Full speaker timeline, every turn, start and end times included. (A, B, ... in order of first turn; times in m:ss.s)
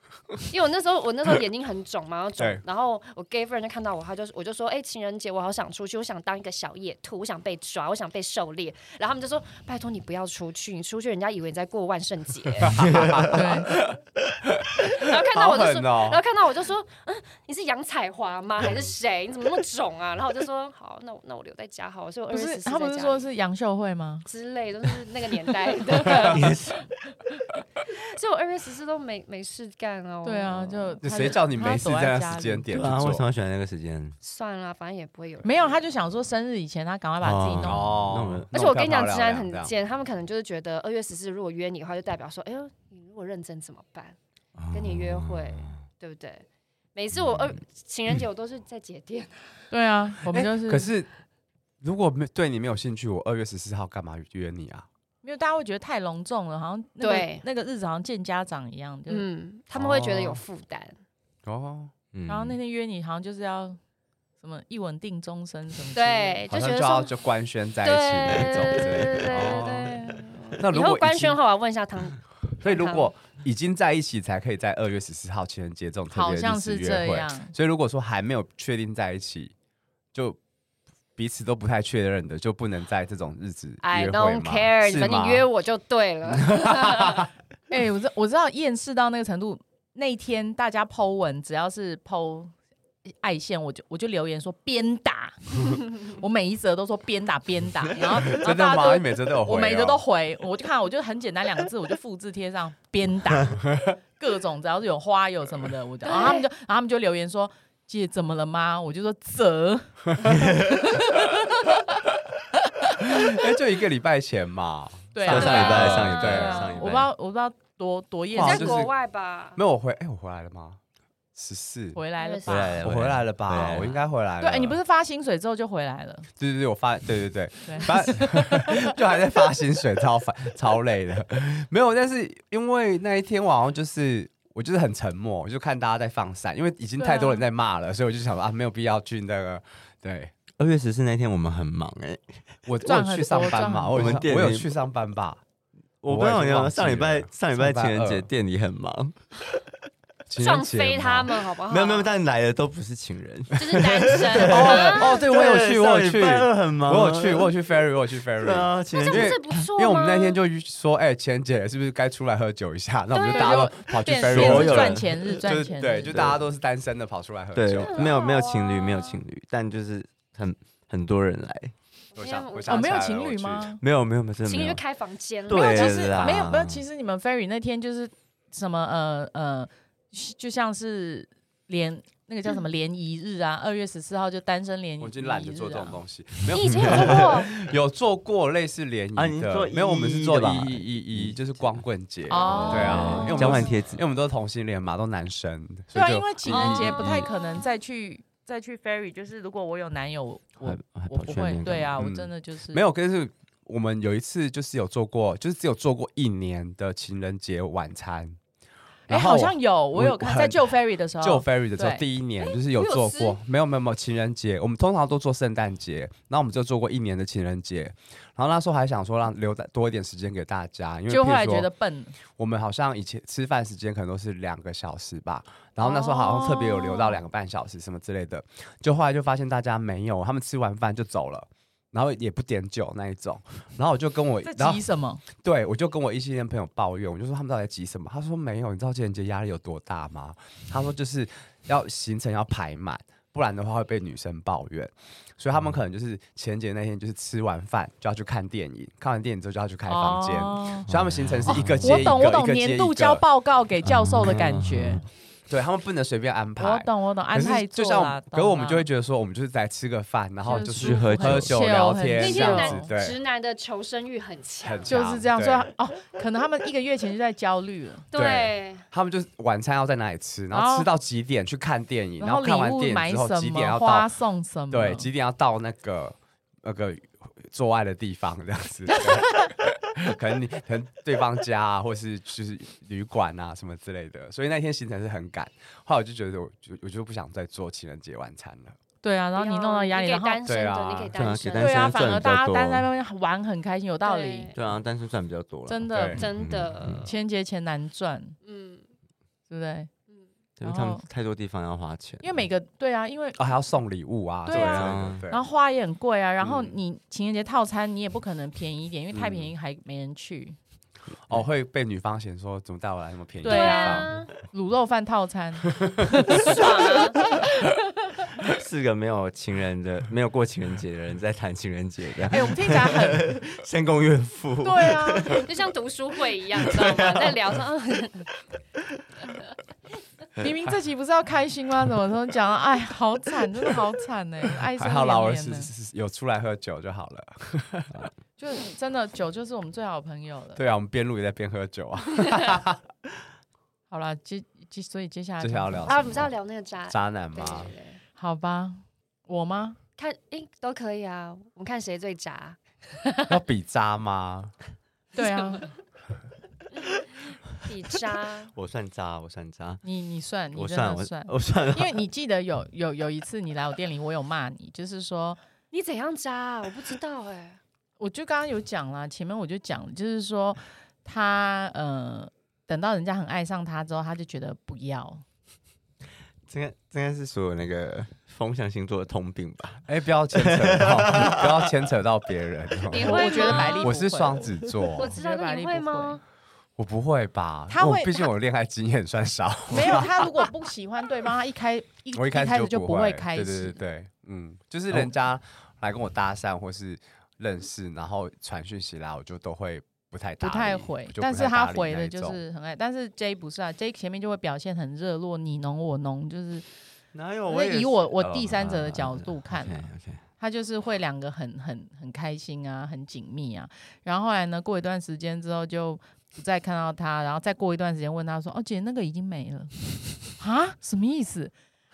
0:00.4-0:12.8 A
0:12.6-0:16.2 B
0:12.7-0:13.4 C
0:13.3-0:13.7 D
0:15.0-0:23.2 A
0:22.3-0:24.2 D
0:24.3-0:26.8 A
0:26.0-0:26.8 C
0:27.8-0:31.0 A
0:30.2-0:32.7 D
0:31.0-0:33.3 B
0:32.7-0:34.2 C
0:34.2-0:35.8 A
0:35.4-0:38.0 D
0:37.2-0:38.5 C
0:37.6-0:39.7 B
0:38.5-0:44.2 A
0:44.6-0:45.8 C
0:44.7-0:49.7 A
0:47.3-0:47.5 C
0:49.7-0:50.9 D
0:50.3-0:51.1 B
0:51.8-0:54.9 B
0:55.2-0:59.2 D
0:57.0-0:57.4 A
0:59.1-1:01.0 A
0:59.8-1:00.4 B
1:01.5-1:01.9 B
1:02.1-1:02.6 C
1:02.3-1:03.8 D
1:04.4-1:06.4 D
1:06.0-1:07.1 A
1:06.5-1:11.4 B
1:07.8-1:13.1 A
1:09.3-1:09.6 C
1:12.6-1:19.5 B
1:16.1-1:17.5 D
1:21.2-1:25.5 B
1:23.8-1:27.3 A
1:26.3-1:27.3 B
1:27.7-1:32.5 D
1:33.2-1:43.6 D
1:38.2-1:40.0 B
1:44.2-1:51.8 D
1:46.0-1:46.4 A
1:52.8-1:53.5 D
1:53.0-1:56.6 B
1:55.1-1:58.9 D
1:55.2-1:57.1 C
1:55.3-1:56.9 A
1:58.3-1:58.9 B
1:58.4-1:59.6 A
1:59.6-2:00.8 B
2:01.4-2:02.0 B
2:02.0-2:02.8 D
2:02.2-2:02.7 A
2:02.5-2:04.0 C
2:02.8-2:04.8 B
2:04.4-2:06.3 D
2:06.4-2:20.3 B
2:07.6-2:08.9 D
2:17.0-2:17.4 D
2:20.6-2:22.4 C
2:22.6-2:25.4 B
2:22.8-2:24.3 D
2:23.9-2:24.7 C
2:26.0-2:29.3 C
2:26.1-2:28.3 B
2:30.3-2:31.3 B
2:30.4-2:32.2 A
2:31.6-2:37.5 C
2:33.6-2:35.2 A
2:34.4-2:48.2 B
2:38.4-2:39.7 C
2:38.9-2:40.4 A
2:43.1-2:43.8 A
2:43.3-2:46.2 D
2:44.1-2:45.1 C
2:46.1-2:46.4 C
2:47.5-2:51.7 C
2:47.7-2:49.2 A
2:52.1-2:52.9 A
2:52.1-2:53.7 B
2:52.7-2:53.8 D
2:53.8-2:54.8 C
2:54.5-2:56.5 A
2:55.5-2:56.8 C
2:55.5-3:06.0 D
3:05.0-3:17.2 B
3:06.5-3:07.5 A
3:06.5-3:07.6 C
3:09.2-3:14.0 C
3:12.3-3:13.7 D
3:12.5-3:13.7 A
3:15.9-3:22.8 D
3:16.5-3:17.7 A
3:20.6-3:22.0 C
3:22.0-3:28.4 B
3:29.1-3:32.0 D
3:29.1-3:41.7 B
3:32.8-3:33.3 D
3:41.1-3:42.2 D
3:42.2-4:13.2 B
3:45.8-3:47.2 D
3:54.4-3:55.2 D
4:09.9-4:10.9 D
4:10.9-4:12.2 C
4:11.5-4:15.0 D
4:13.8-4:15.0 C
4:15.5-4:23.2 B
4:16.6-4:18.8 D
4:20.4-4:22.9 D
4:20.6-4:21.6 C
4:22.2-4:25.0 A
4:24.6-4:25.6 B
4:24.9-4:28.1 D
4:28.1-4:28.8 A
4:28.1-4:34.1 B
4:30.5-4:30.9 D
4:32.2-4:35.1 D
4:34.7-4:48.8 B
4:49.0-4:50.4 D
4:49.4-4:52.3 A
4:50.4-4:51.2 B
4:51.1-4:52.9 C
4:51.6-4:54.5 D
4:54.0-4:54.6 A
4:54.5-4:57.0 C
4:55.7-4:56.2 D
4:55.9-4:56.2 B
4:56.2-4:57.2 A
4:57.0-4:58.4 D
4:58.4-4:58.9 A
4:59.5-4:59.9 D
5:00.6-5:02.5 C
5:00.6-5:01.0 D
5:02.2-5:03.4 D
5:03.4-5:05.4 B
5:04.4-5:10.6 D
5:04.5-5:05.3 C
5:06.4-5:06.8 B
5:11.3-5:14.2 B
5:13.4-5:14.3 A
5:13.4-5:17.7 D
5:15.8-5:16.3 B
5:16.3-5:17.2 A
5:18.4-5:25.6 C
5:22.3-5:23.4 D
5:24.6-5:25.4 D
5:25.4-5:28.3 A
5:26.6-5:27.4 C
5:30.4-5:35.7 D
5:34.8-5:38.1 B
5:38.4-5:40.6 D
5:40.6-5:42.8 B
5:43.9-5:45.9 D
5:45.4-5:46.3 B
5:45.8-5:48.0 A
5:46.9-5:47.7 B
5:48.2-5:49.8 D
5:50.0-5:52.6 A
5:53.3-5:54.5 B
5:55.2-5:55.7 D
5:55.2-5:55.7 A
5:57.6-5:58.5 A
5:58.5-5:59.8 C
5:59.8-6:05.4 D
6:00.5-6:02.0 C
6:05.7-6:07.6 A
6:08.0-6:15.2 D
6:16.5-6:21.7 C
6:19.9-6:25.2 B
6:22.9-6:24.0 A
6:23.0-6:26.2 D
6:25.0-6:26.2 A
6:26.8-6:30.3 B
6:27.7-6:28.3 D
6:29.7-6:33.8 D
6:32.1-6:42.4 B
6:34.9-6:35.2 D
6:40.4-6:46.6 D
6:47.1-6:50.2 C
6:47.5-6:59.7 D
7:00.4-7:01.5 D